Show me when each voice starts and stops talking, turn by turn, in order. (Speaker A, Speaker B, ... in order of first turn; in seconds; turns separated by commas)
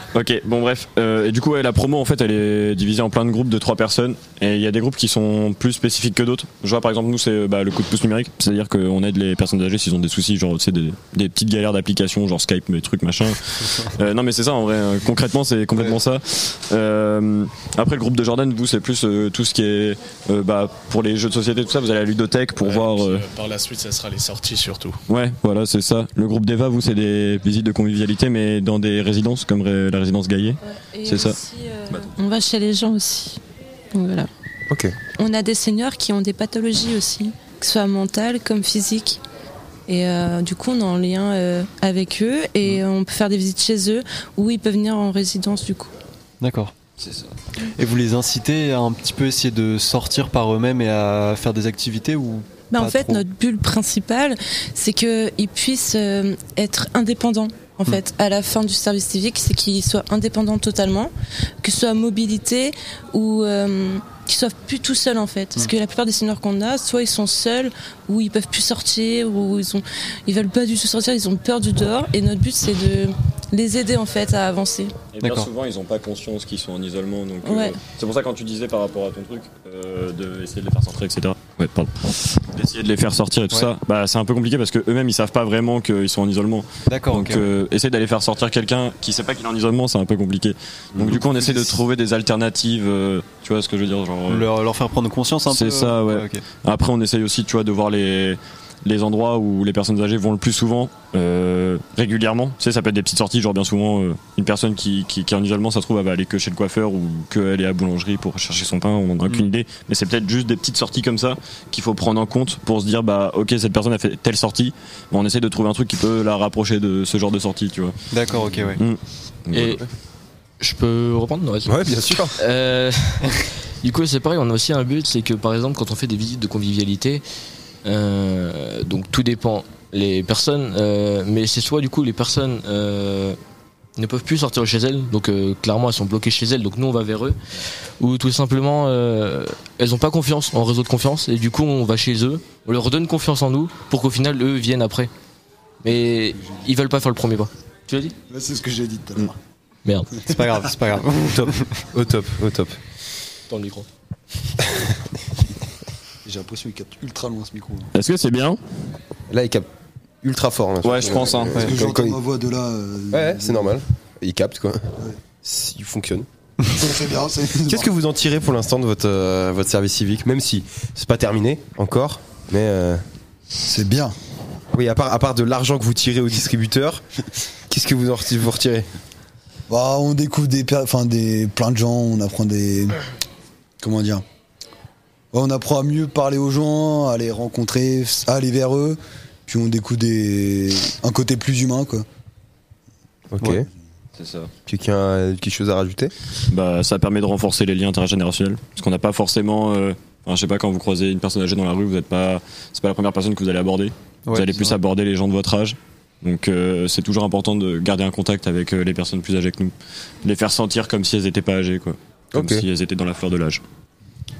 Speaker A: 0.1-23.2, Speaker B: 22.6-25.0, Speaker A: 25.1-31.4, Speaker C: 30.6-33.4, Speaker C: 33.9-34.3, Speaker D: 34.7-35.0, Speaker C: 35.1-39.2, Speaker C: 39.9-45.9, Speaker E: 46.4-46.7, Speaker A: 47.0-47.3, Speaker E: 47.7-53.2, Speaker C: 52.7-61.1, Speaker C: 61.6-74.9, Speaker A: 75.1-94.5, Speaker E: 75.2-75.5, Speaker C: 77.4-77.8, Speaker E: 86.9-87.5, Speaker E: 91.1-91.7, Speaker E: 94.3-96.4, Speaker A: 95.5-119.8, Speaker E: 118.1-118.8, Speaker F: 119.5-119.8, Speaker F: 120.6-127.2, Speaker D: 121.6-122.3, Speaker F: 127.8-133.4, Speaker F: 134.0-137.4, Speaker F: 138.0-145.1, Speaker F: 145.8-148.2, Speaker G: 148.3-149.3, Speaker E: 150.3-151.8, Speaker G: 150.3-150.8, Speaker D: 151.2-152.8, Speaker F: 153.5-153.8, Speaker G: 156.2-157.9, Speaker A: 157.9-158.6, Speaker D: 159.3-159.7, Speaker D: 160.2-162.2, Speaker A: 160.8-161.5, Speaker G: 161.5-163.8, Speaker D: 163.1-166.3, Speaker G: 166.7-167.8, Speaker D: 167.6-173.0, Speaker G: 173.6-174.1, Speaker D: 174.7-177.0, Speaker D: 177.7-178.9, Speaker G: 179.7-183.0, Speaker G: 183.8-184.2, Speaker G: 185.3-192.0, Speaker D: 193.3-193.6, Speaker A: 194.2-194.5, Speaker D: 194.7-196.1, Speaker A: 196.5-209.7, Speaker E: 204.2-204.8, Speaker A: 210.2-213.6, Speaker D: 212.3-212.6